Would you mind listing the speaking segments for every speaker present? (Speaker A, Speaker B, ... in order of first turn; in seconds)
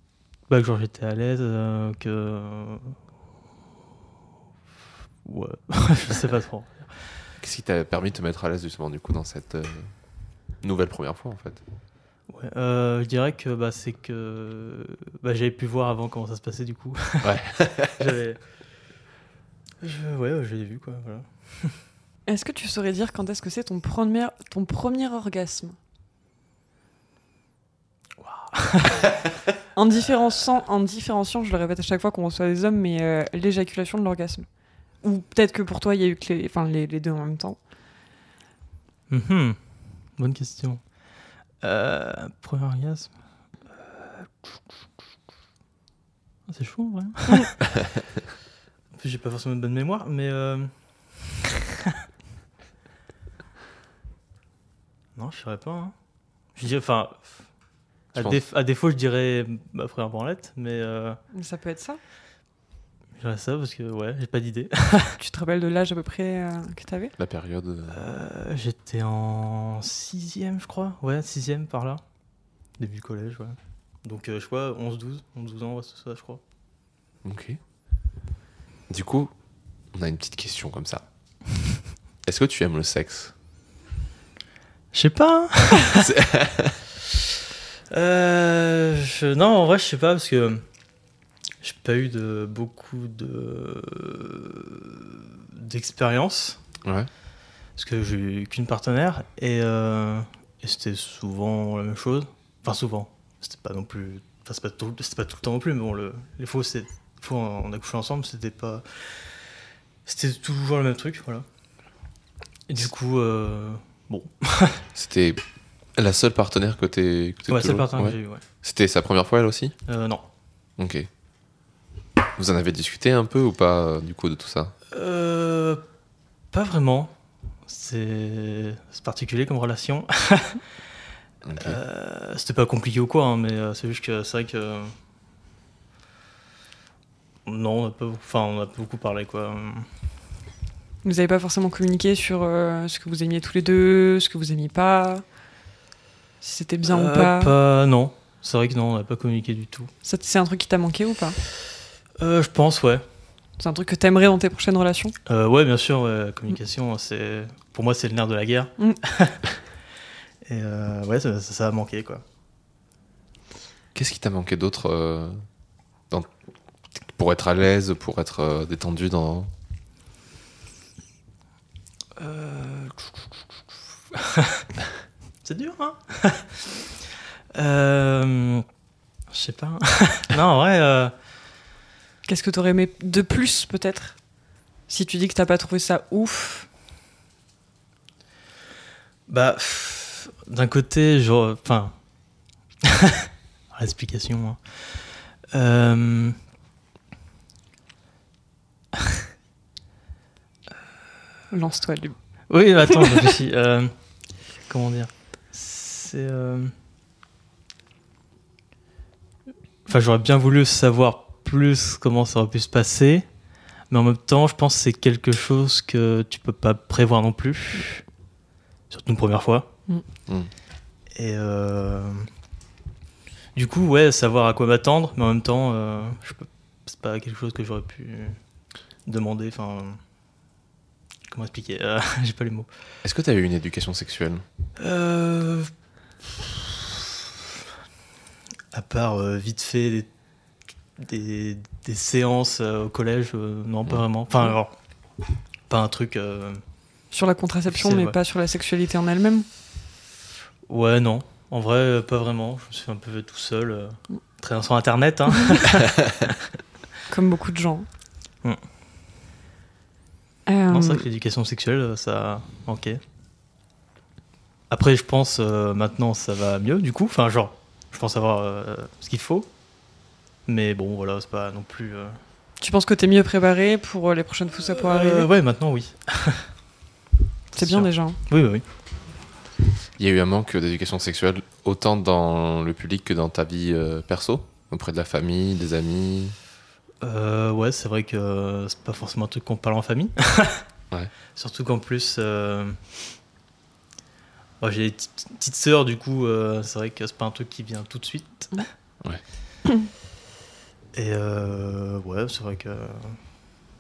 Speaker A: 0.5-3.0, 5.2-7.1, 12.3-18.7, 19.8-21.8, 28.2-29.1, 39.1-44.5, 46.5-47.6, 48.9-51.3, 55.1-61.2, 63.2-65.2, 67.9-72.0, 72.8-76.4, 84.9-86.1, 87.9-90.7, 91.6-96.6, 97.8-109.5, 110.0-111.5, 112.7-114.8, 117.5-118.4, 119.9-120.2, 124.9-125.8, 126.5-127.2, 127.7-130.6, 131.6-134.9, 137.4-139.9, 146.8-149.9, 152.2-153.0, 155.3-159.4, 160.4-162.2, 172.2-173.2, 174.2-174.5, 175.4-176.8, 177.6-178.7, 179.3-181.1, 189.3-192.2, 193.7-196.4, 202.5-206.7, 209.9-213.3, 213.9-218.1, 218.9-219.7, 221.1-222.3, 223.6-228.4, 229.0-230.0, 231.3-232.7, 234.8-235.7, 238.7-240.1, 241.0-244.9, 245.7-246.6, 247.7-248.2, 250.7-256.0, 260.7-263.0, 264.7-269.5, 270.4-272.2, 274.6-276.5, 277.5-278.6, 287.0-290.6, 291.4-292.8, 294.6-298.7, 300.9-303.2
Speaker B: 7.4-11.6, 17.2-18.0, 58.1-58.4, 67.2-68.0, 77.2-77.6, 78.9-81.0, 82.2-83.3, 86.0-86.8, 96.8-97.1, 115.0-119.8, 120.8-121.1, 122.4-124.7, 131.4-131.8, 163.9-165.5, 167.0-169.5, 233.0-234.4, 280.0-286.4
Speaker C: 22.3-25.8, 29.7-37.6, 61.3-62.0, 65.2-67.1, 141.0-145.3, 146.4-147.5, 150.0-151.4, 153.6-155.2, 182.3-186.7, 201.5-202.4, 247.1-249.5, 257.1-257.9, 260.5-261.0, 272.6-275.3, 277.6-278.2